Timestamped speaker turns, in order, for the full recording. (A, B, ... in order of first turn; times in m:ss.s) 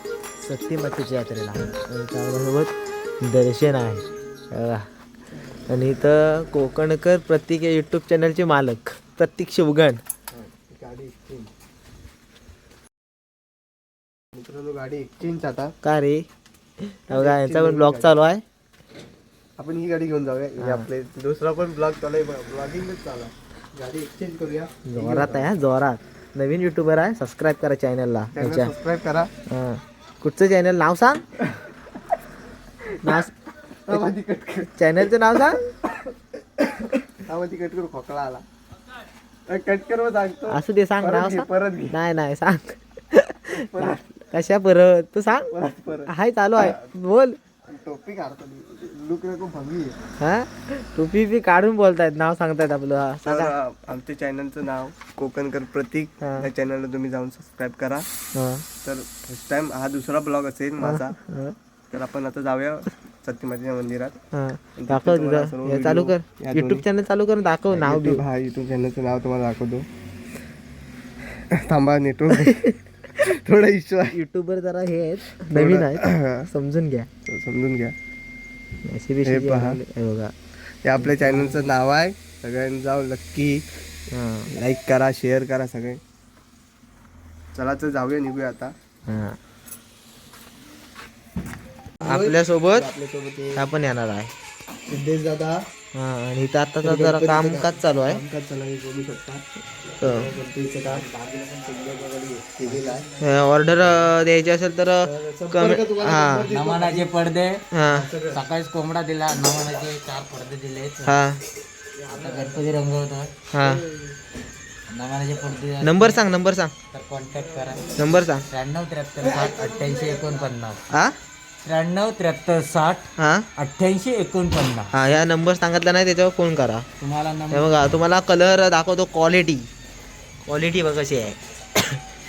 0:00.4-0:04.8 A
0:05.7-0:10.0 A
0:10.3-0:11.5 B
0:14.3-0:15.7 B
0:15.8-0:16.3 A
0:17.1-0:18.4 A
0:17.1-0:18.1 B
0:19.6-0:25.5 B
0:20.6-0:20.9 A
0:24.9-0:28.7 A
0:28.4-0:29.3 B
0:29.5-0:31.2 A
0:33.0-0:33.3 A
0:33.9-0:34.8 B
0:34.8-0:35.6 A
0:36.8-0:38.4 B
0:39.5-0:42.0 B
0:40.5-0:45.5 A
0:43.5-0:44.0 B
0:45.5-0:46.8 B
0:46.1-0:47.4 A
0:47.7-0:50.0 B
0:50.2-0:53.5 A
0:53.2-0:58.1 B
0:56.2-0:56.5 A
0:58.4-0:58.6 A
0:58.8-1:01.2 B
1:00.8-1:01.6 A
1:01.9-1:04.2 B
1:04.3-1:08.2 A
1:04.8-1:06.8 B
1:07.7-1:09.8 B
1:11.5-1:12.6 B
1:13.2-1:14.2 B
1:14.2-1:17.1 A
1:15.5-1:16.4 B
1:17.3-1:17.9 B
1:18.9-1:20.3 A
1:19.2-1:19.8 B
1:20.8-1:23.6 B
1:21.0-1:21.6 A
1:24.1-1:24.5 A
1:24.5-1:26.0 B
1:27.5-1:28.7 B
1:29.1-1:29.4 A
1:32.0-1:33.7 B
1:32.1-1:32.9 A
1:33.6-1:34.3 A
1:34.9-1:35.6 B
1:36.0-1:38.2 A
1:36.8-1:39.4 B
1:40.0-1:43.1 B
1:40.0-1:40.3 A
1:42.6-1:43.0 C
1:43.2-1:46.4 A
1:45.0-1:47.2 B
1:46.5-1:47.6 C
1:47.7-1:48.1 A
1:47.8-1:48.4 B
1:48.3-1:51.1 C
1:51.0-1:51.4 A
1:52.0-1:52.6 B
1:52.1-1:53.3 C
1:53.5-1:53.8 A
1:53.6-1:54.2 B
1:54.9-1:56.3 C
1:55.8-1:56.7 A
1:56.9-2:00.8 C
1:58.0-1:58.4 A
1:59.2-2:00.5 B
2:01.6-2:04.9 C
2:03.2-2:03.5 A
2:04.9-2:06.8 A
2:07.0-2:07.8 C
2:07.5-2:09.7 A
2:10.5-2:12.0 A